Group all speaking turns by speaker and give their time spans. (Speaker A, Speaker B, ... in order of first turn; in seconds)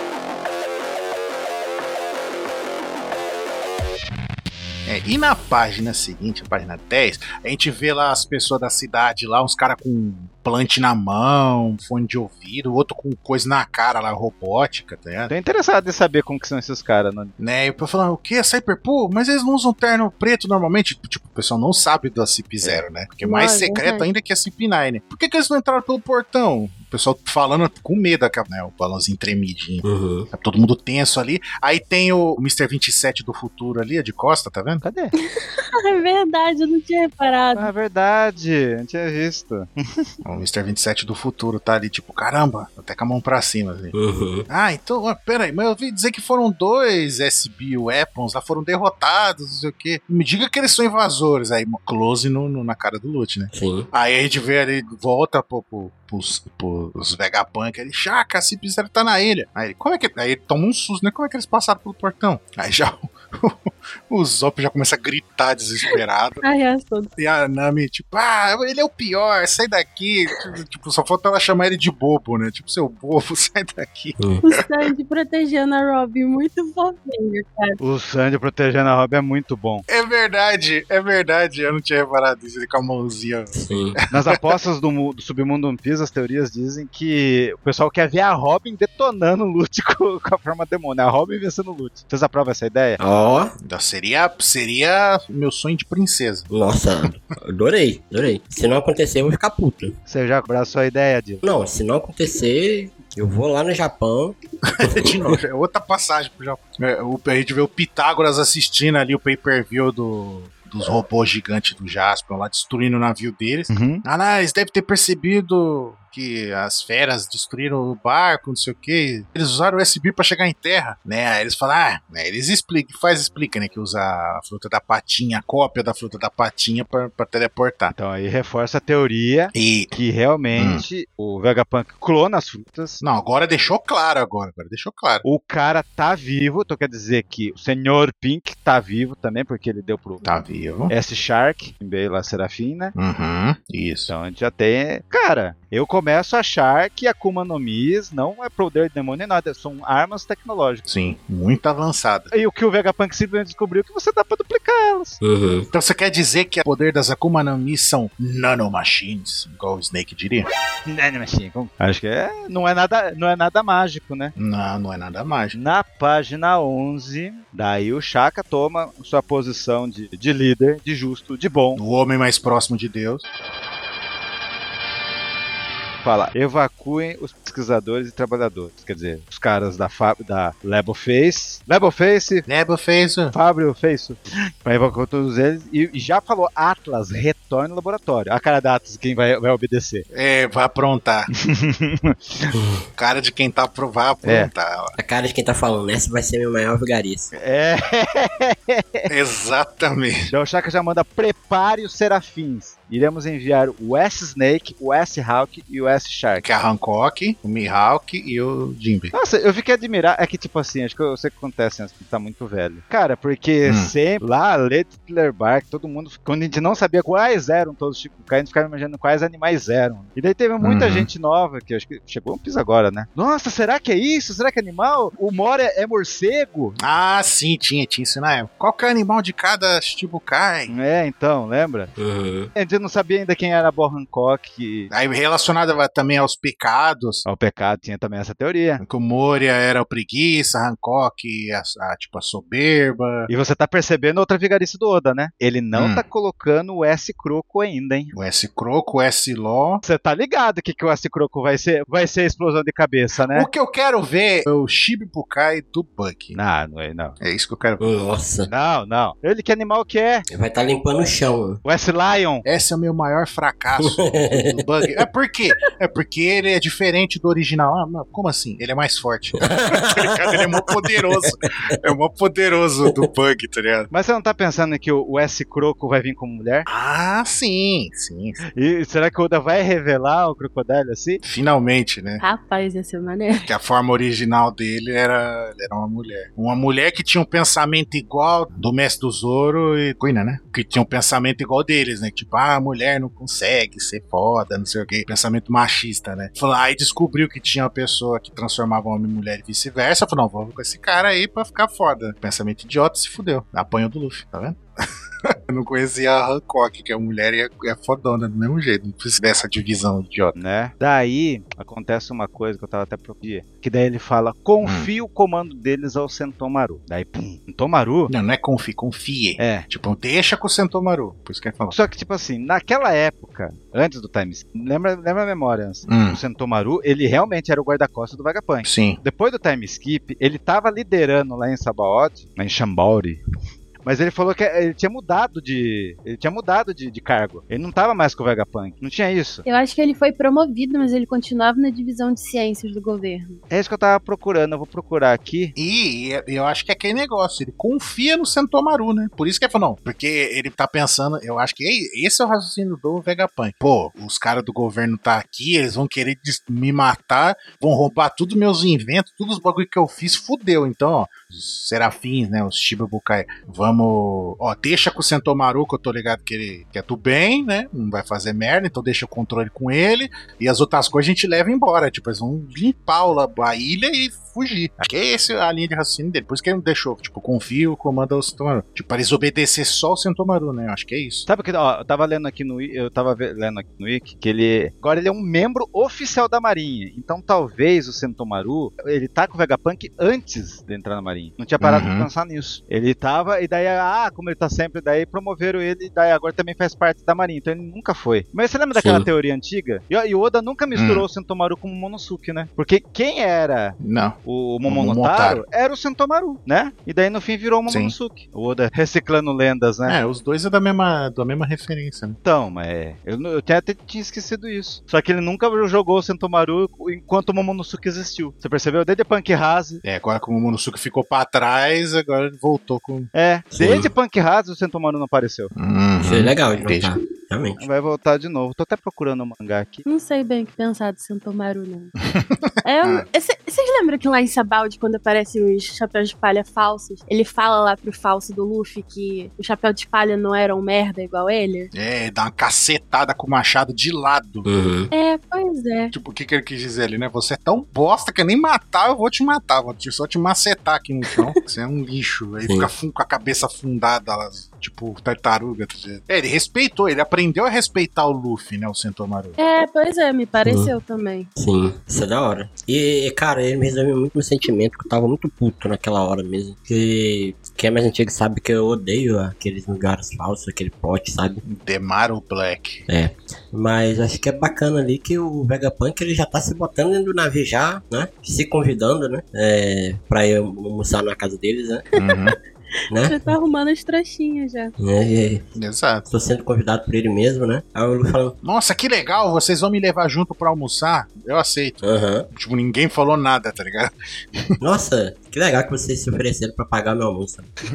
Speaker A: 4.9-15.3, 17.4-34.8, 40.2-44.0, 44.5-66.4, 67.2-74.9, 79.9-84.4, 93.6-96.5, 104.7-127.9, 129.5-129.9, 130.5-130.8, 133.0-135.2, 140.2-140.9, 142.9-144.1, 150.9-152.3, 155.7-160.5, 164.4-165.6, 171.8-173.2, 182.4-183.3, 190.1-191.3, 192.9-194.9, 199.1-200.3, 206.4-209.1, 213.7-213.9, 220.6-221.1, 226.8-230.7, 234.9-237.2, 238.8-243.3, 245.7-246.0, 248.1-249.8, 253.3-256.4, 257.2-257.8, 262.4-273.9, 276.7-278.4, 281.2-282.2, 283.4-304.6, 305.2-310.4, 314.6-314.9, 318.1-321.8, 325.9-326.2, 328.6-329.0, 345.6-381.3, 391.6-392.1, 400.7-401.1, 403.8-405.4, 407.7-407.9, 409.8-412.2, 419.8-423.1, 425.5-426.9, 432.1-433.1, 441.7-444.5, 445.9-459.4, 471.4-472.9, 482.0-482.4, 485.6-486.1, 488.4-494.6
Speaker B: 15.3-17.3, 34.8-35.1, 37.5-40.1, 77.8-79.8, 84.1-93.0, 100.1-101.4, 113.7-114.0, 127.9-133.0, 135.2-140.2, 140.9-142.9, 144.1-150.8, 152.3-155.2, 160.9-164.3, 165.5-171.8, 176.0-182.4, 183.3-190.0, 191.4-192.5, 194.2-194.5, 197.3-199.1, 200.3-206.4, 209.1-226.8, 230.7-231.9, 232.5-234.9, 237.2-238.8, 243.3-248.1, 249.8-253.5, 256.3-257.2, 258.5-260.2, 261.6-262.4, 273.9-276.7, 278.6-281.2, 310.4-318.1, 319.4-319.7, 321.7-333.2, 333.8-339.4, 343.5-345.5, 381.3-410.0, 412.2-419.8, 423.1-425.5, 427.6-429.8
Speaker C: 23.2-24.1, 35.4-37.7, 66.0-67.1, 74.4-77.8, 282.2-283.5, 339.4-343.4, 429.9-431.9, 432.6-441.7, 444.9-445.9, 459.4-461.3, 482.0-482.3, 483.0-484.7
Speaker D: 29.8-30.3, 43.9-44.5, 53.5-53.9, 83.5-84.0, 93.0-93.5, 96.5-100.0, 101.4-105.4, 155.2-155.7, 192.5-192.8, 195.0-197.3, 232.0-232.5, 257.8-258.5, 260.3-261.6, 263.8-264.6, 269.4-271.3, 398.7-399.1, 423.5-423.9, 426.0-427.6, 444.4-444.9, 452.4-452.7, 460.4-460.7, 461.4-471.4, 472.9-481.9, 482.9-483.3, 484.8-485.4, 486.1-488.4, 491.8-492.3, 494.6-497.5